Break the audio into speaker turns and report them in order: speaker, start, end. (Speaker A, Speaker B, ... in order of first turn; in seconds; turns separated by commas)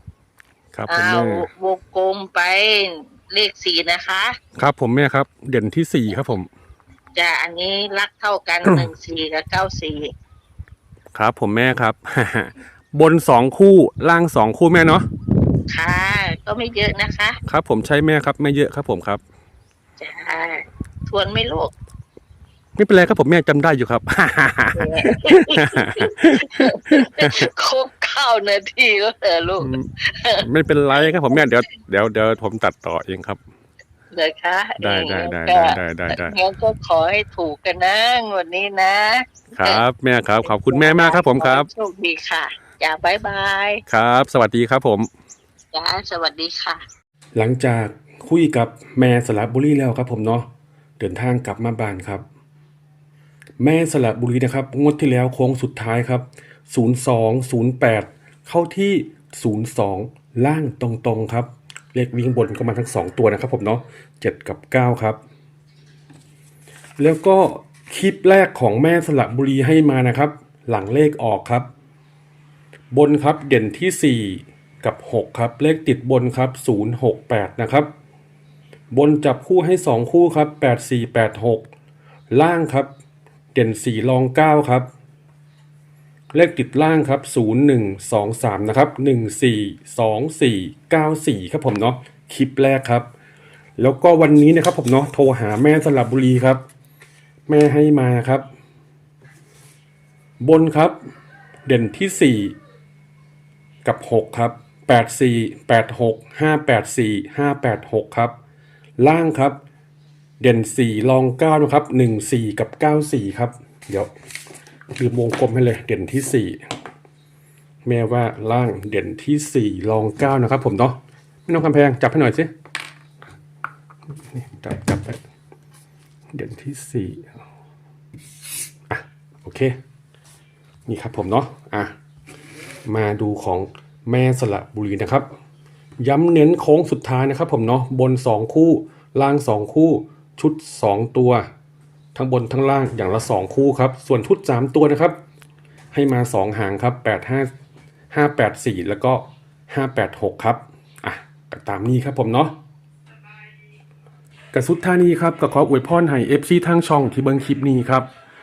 Speaker A: 0.7-1.4, Speaker B: 0.9-4.3, Speaker A: 4.5-6.5, Speaker B: 7.2-10.1, Speaker A: 11.1-15.1, Speaker B: 15.7-17.4, Speaker A: 17.5-19.2, Speaker B: 20.0-21.7, Speaker A: 22.8-27.5, Speaker B: 24.8-31.4, Speaker A: 29.6-29.9, Speaker A: 30.4-33.4, Speaker B: 34.1-39.8, Speaker A: 34.8-36.3, Speaker A: 39.5-41.7, Speaker B: 40.4-43.8, Speaker A: 43.9-45.1, Speaker B: 45.7-46.8, Speaker A: 47.4-50.5, Speaker A: 51.0-52.2, Speaker A: 53.6-65.2, Speaker A: 67.0-71.7, Speaker A: 72.9-77.9, Speaker A: 78.9-81.7, Speaker A: 82.3-82.9, Speaker A: 83.5-84.9, Speaker A: 86.3-93.1, Speaker A: 93.8-96.6, Speaker A: 97.5-98.4, Speaker A: 100.4-100.9, Speaker A: 101.7-102.5, Speaker A: 103.8-108.3, Speaker A: 109.0-109.6, Speaker A: 110.4-114.1, Speaker A: 114.9-116.6, Speaker A: 117.8-122.5, Speaker A: 124.3-125.2, Speaker A: 126.3-127.3, Speaker A: 128.9-129.7, Speaker A: 130.9-131.9, Speaker A: 132.8-135.3, Speaker A: 136.0-141.4, Speaker A: 142.1-145.2, Speaker A: 145.9-147.5, Speaker A: 148.1-152.5, Speaker A: 154.5-158.1